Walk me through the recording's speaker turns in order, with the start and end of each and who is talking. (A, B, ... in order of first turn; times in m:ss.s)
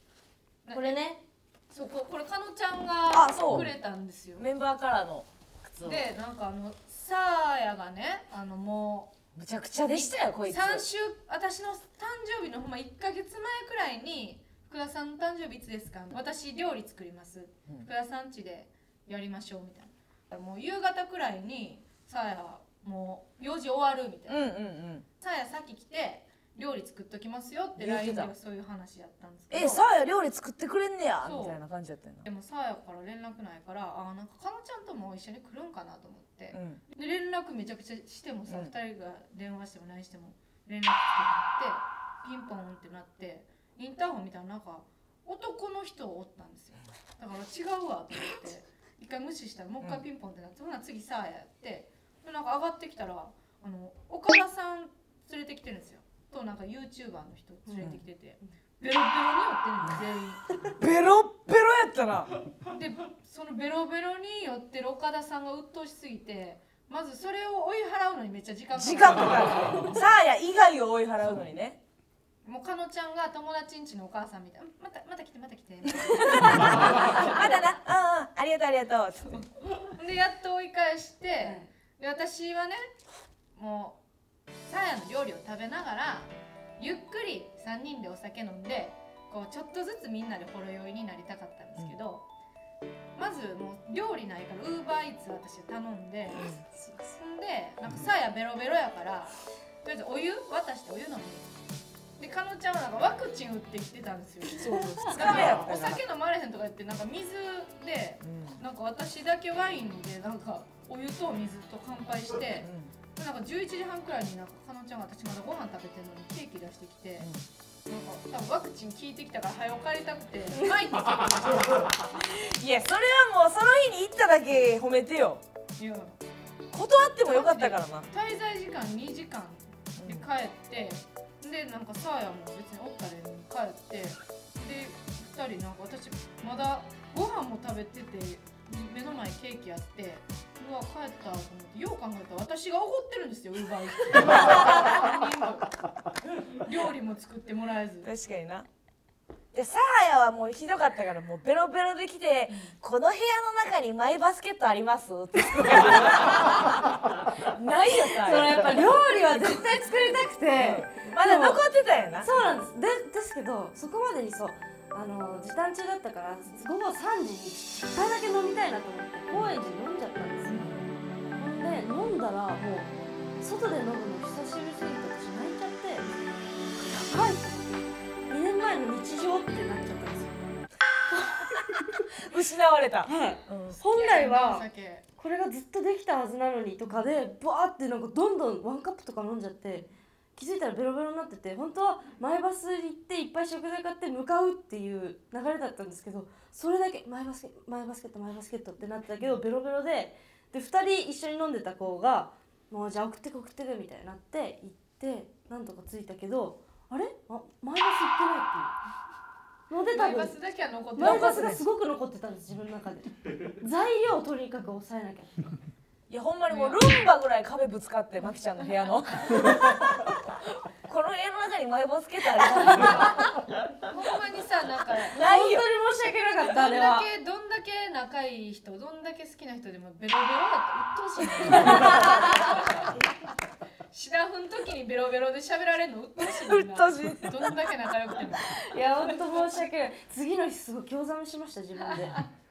0:00.7-0:01.0 A
0:00.7-0:01.2 B
0:01.7-0:04.5 A
0:03.1-0:03.7 C
0:04.4-0:06.0 C
0:05.8-0:09.1 A
0:09.4-0:10.8 C
0:10.4-0:24.5 A
0:24.3-0:25.0 C
0:25.2-0:29.8 A
0:27.8-0:28.3 C
0:29.5-0:32.3 C
0:31.2-0:31.6 A
0:32.2-1:00.7 A
0:36.5-0:36.8 C
0:38.5-0:38.7 C
0:57.7-0:57.9 B
1:00.8-1:02.3 C
1:02.7-1:09.8 A
1:08.8-1:11.8 C
1:12.4-1:17.4 A
1:16.0-1:19.5 C
1:20.0-1:22.8 A
1:21.4-1:21.7 B
1:23.6-1:24.0 A
1:24.6-1:32.3 A
1:33.2-1:36.5 A
1:36.6-1:37.2 B
1:37.2-1:41.5 A
1:42.2-1:57.3 A
1:44.5-1:45.4 B
1:44.6-1:46.0 C
1:48.2-1:48.6 C
1:52.6-1:52.9 C
1:57.2-1:57.4 C
1:57.9-2:02.0 A
2:02.1-2:05.4 C
2:05.8-2:06.2 A
2:06.7-2:08.1 C
2:07.3-2:25.8 A
2:10.0-2:10.3 C
2:26.6-2:28.1 A
2:28.0-2:28.7 C
2:29.5-2:36.7 C
2:32.5-2:32.8 A
2:37.4-2:38.9 C
2:37.9-2:41.6 B
2:40.5-2:42.3 C
2:42.2-2:50.6 B
2:50.5-2:50.9 C
2:51.4-2:56.1 B
2:56.8-3:00.4 B
3:02.2-3:03.8 C
3:03.0-3:04.7 B
3:03.8-3:05.1 A
3:05.2-3:28.7 B
3:29.7-3:30.4 B
3:29.9-3:31.6 A
3:31.0-3:35.5 B
3:31.0-3:31.6 C
3:36.1-3:40.2 C
3:36.5-3:36.8 A
3:40.7-3:43.3 C
3:42.4-3:43.0 B
3:43.9-3:45.2 A
3:45.1-3:45.7 C
3:45.3-3:47.1 B
3:46.5-3:52.8 A
3:53.9-3:59.5 A
3:56.2-3:57.6 B
3:58.3-4:02.2 B